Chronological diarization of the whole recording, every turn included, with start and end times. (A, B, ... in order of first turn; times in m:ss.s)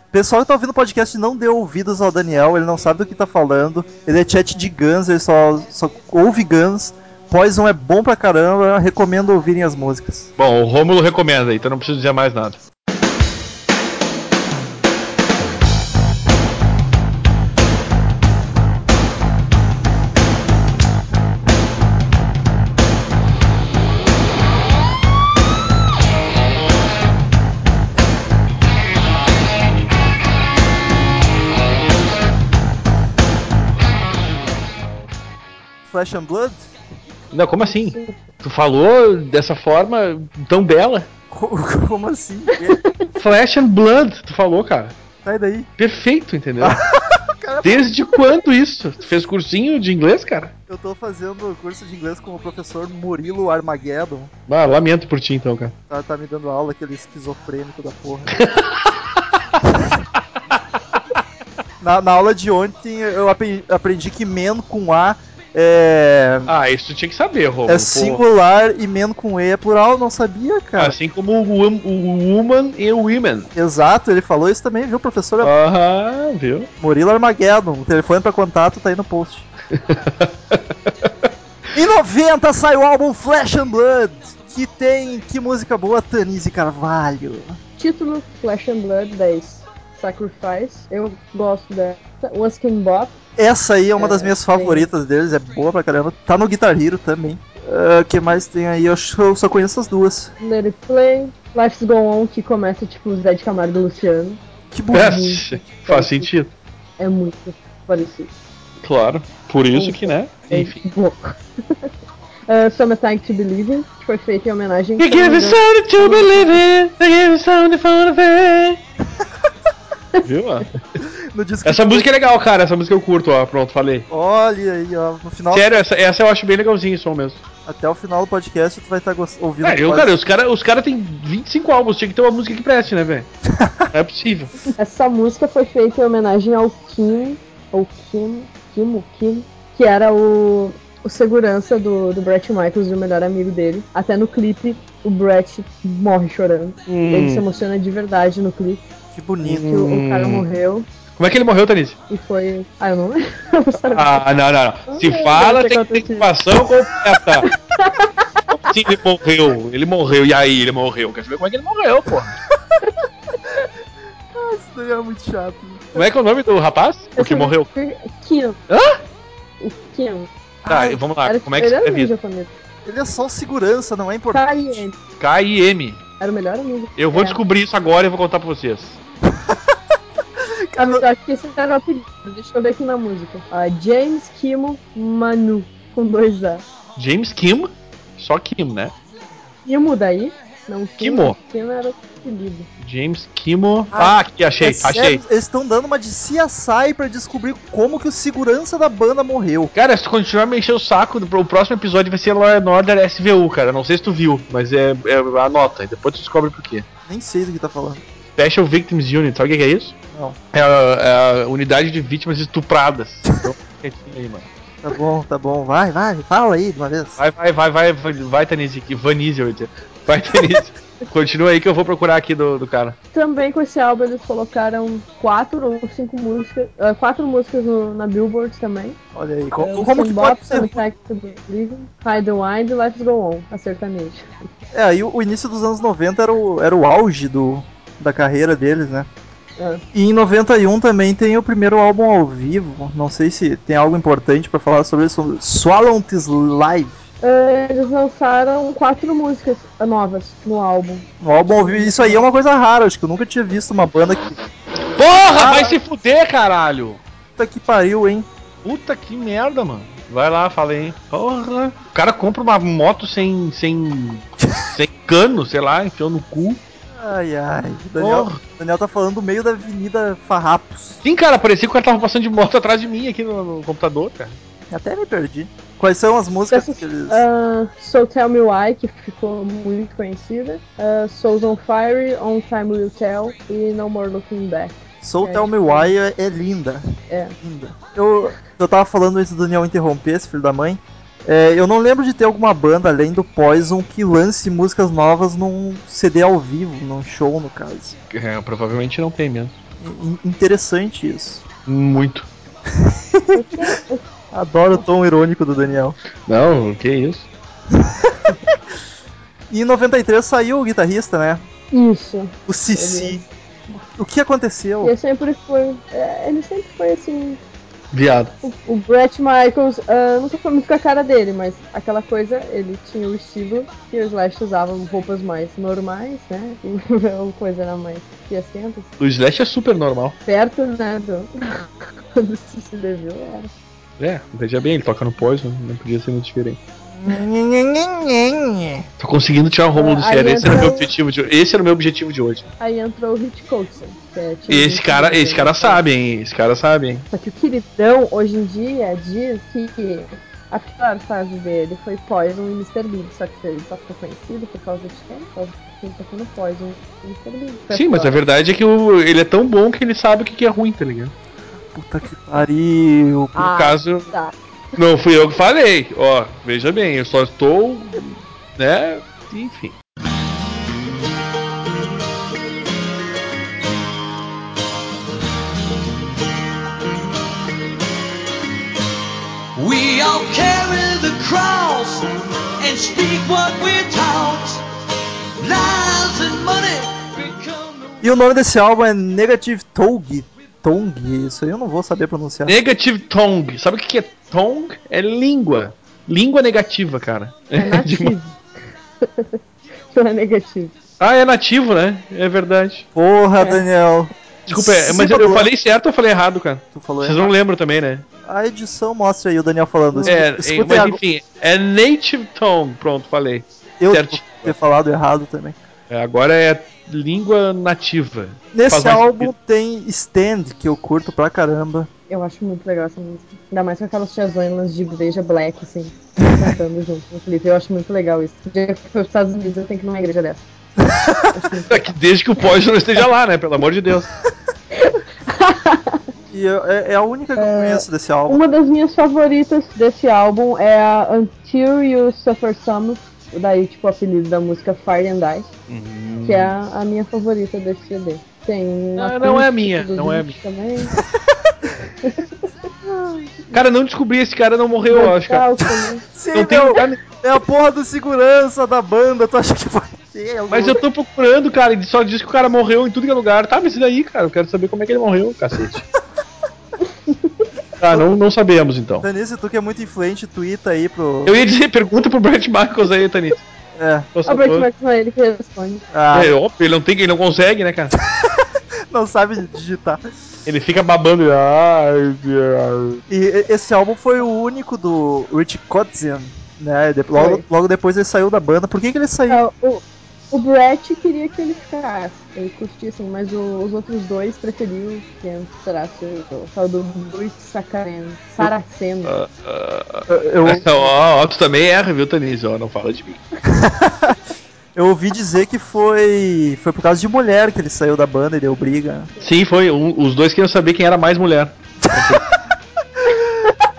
0:00.1-0:10.3 A
0:10.4-0:12.6 B
0:35.8-0:36.7 A
0:37.3-0:41.1 B
0:37.7-0:38.1 C
0:41.3-0:42.8 A
0:42.5-0:43.1 C
0:43.2-0:45.0 B
0:45.2-0:45.7 A
0:45.8-0:46.8 B
0:46.6-0:48.0 A
0:47.6-0:50.5 B
0:50.7-0:54.3 A
0:54.5-0:55.7 B
0:55.9-0:58.3 A
0:58.3-0:59.2 B
0:59.7-0:59.9 A
1:01.8-1:06.5 A
1:06.5-1:08.2 B
1:07.7-1:11.0 A
1:10.8-1:13.5 B
1:13.5-1:15.5 A
1:15.4-1:16.7 B
1:16.8-1:19.5 A
1:19.7-1:21.1 B
1:21.7-1:27.6 A
1:27.8-1:33.2 C
1:33.4-1:40.3 A
1:34.0-1:34.9 C
1:40.4-1:44.4 C
1:44.7-1:45.2 A
1:44.9-1:46.5 B
1:44.9-1:46.3 C
1:47.0-1:48.3 C
1:48.8-1:50.8 B
1:49.7-1:51.9 C
1:52.5-1:56.6 C
1:55.0-1:58.8 B
2:00.2-2:00.7 B
2:01.0-2:02.1 A
2:01.6-2:04.1 B
2:04.1-2:05.8 A
2:05.5-2:07.4 B
2:07.6-2:10.1 A
2:09.6-2:13.3 B
2:13.5-2:13.9 A
2:13.9-2:14.6 B
2:14.8-2:28.8 C
2:26.9-2:27.4 B
2:29.1-2:29.6 A
2:29.4-2:30.4 B
2:29.5-2:30.9 C
2:31.2-2:32.0 B
2:32.1-2:34.2 C
2:33.9-2:37.5 B
2:34.9-2:36.3 C
2:37.4-2:38.3 C
2:38.5-2:42.4 B
2:44.3-2:46.1 A
2:45.9-2:47.7 B
2:47.2-2:48.6 C
2:48.7-2:49.0 B
2:49.6-2:50.3 C
2:50.6-2:51.0 A
2:50.7-2:52.1 B
2:51.2-2:52.5 C
2:52.8-2:54.8 A
2:54.3-2:54.9 C
2:55.2-2:56.0 B
2:56.2-2:57.4 C
2:57.0-2:59.0 B
2:59.3-2:59.8 A
3:00.4-3:01.0 A
3:00.8-3:06.6 C
3:07.0-3:08.9 B
3:09.6-3:12.7 C
3:11.0-3:11.4 B
3:12.8-3:15.2 B
3:13.9-3:19.7 A
3:19.7-3:26.9 B
3:27.1-3:28.0 A
3:28.4-3:29.9 B
3:30.5-3:34.5 B
3:34.8-3:37.2 A
3:37.2-3:43.0 B
3:43.1-3:49.0 C
3:49.1-3:50.8 A
3:49.6-3:54.4 C
3:54.7-3:59.1 A
3:59.6-3:59.8 C
3:59.9-4:07.0 A
4:07.2-4:12.2 C
4:11.2-4:14.4 A
4:14.9-4:17.0 B
4:15.3-4:15.8 A
4:17.4-4:18.3 A
4:18.6-4:26.6 B
4:26.9-4:31.0 A
4:28.0-4:28.4 B
4:31.0-4:34.4 B
4:34.7-4:37.2 A
4:36.5-4:45.9 C
4:45.0-4:46.9 A
4:47.1-4:47.4 C
4:47.4-4:57.9 A
4:58.1-4:59.6 B
4:59.8-5:01.4 A
5:01.6-5:02.3 B
5:02.7-5:03.4 A
5:03.3-5:04.0 C
5:04.3-5:06.0 A
5:06.3-5:07.3 B
5:09.5-5:11.4 A
5:11.7-5:13.8 C
5:12.5-5:13.2 A
5:14.0-5:14.9 A
5:14.8-5:17.4 C
5:17.9-5:18.3 B
5:18.4-5:28.9 C
5:29.0-5:30.2 B
5:30.2-5:33.5 C
5:34.0-5:36.6 B
5:36.9-5:38.8 A
5:39.0-5:42.5 B
5:39.7-5:40.9 C
5:42.6-5:45.8 C
5:44.5-5:47.0 B
5:47.1-5:58.2 C
5:57.7-6:01.1 B
6:01.6-6:03.4 A
6:03.4-6:04.1 B
6:03.4-6:04.3 C
6:04.8-6:09.8 B
6:19.6-6:24.6 D
6:25.4-6:28.0 D
6:28.0-6:32.6 A
6:32.4-6:38.1 B
6:37.5-6:38.4 C
6:39.0-6:39.4 C
6:39.9-6:40.7 C
6:41.0-6:42.8 B
6:42.9-6:45.5 A
6:44.5-6:48.0 B
6:46.7-6:47.3 A
6:48.2-6:51.0 A
6:49.9-6:50.2 C
6:50.1-6:54.6 B
6:53.8-6:55.6 A
6:55.9-6:59.3 B
6:58.5-7:01.9 A
7:02.1-7:10.4 C
7:10.8-7:11.4 A
7:11.3-7:11.8 C
7:11.7-7:14.1 B
7:14.8-7:16.0 C
7:16.3-7:18.4 A
7:17.4-7:25.5 C
7:25.7-7:26.5 B
7:26.2-7:31.0 C
7:29.0-7:30.3 B
7:32.0-7:32.4 C
7:32.8-7:33.5 A
7:33.5-7:35.4 B
7:34.9-7:36.0 C
7:36.1-7:40.8 A
7:36.3-7:37.0 B
7:40.5-7:45.8 B
7:47.1-7:47.5 C
7:47.8-7:49.0 B
7:49.0-7:51.4 A
7:51.2-7:53.4 B
7:53.7-7:54.1 A
7:54.1-7:54.7 B
7:54.2-7:55.8 C
7:55.9-7:56.3 A
7:56.1-7:57.9 B
7:58.1-8:00.0 A
8:00.4-8:03.0 B
8:03.1-8:09.4 A
8:07.1-8:07.4 C
8:09.3-8:19.1 C
8:19.0-8:23.2 B
8:20.1-8:20.9 A
8:23.5-8:24.2 A
8:24.7-8:29.1 A
8:29.2-8:32.2 B
8:33.0-8:33.4 A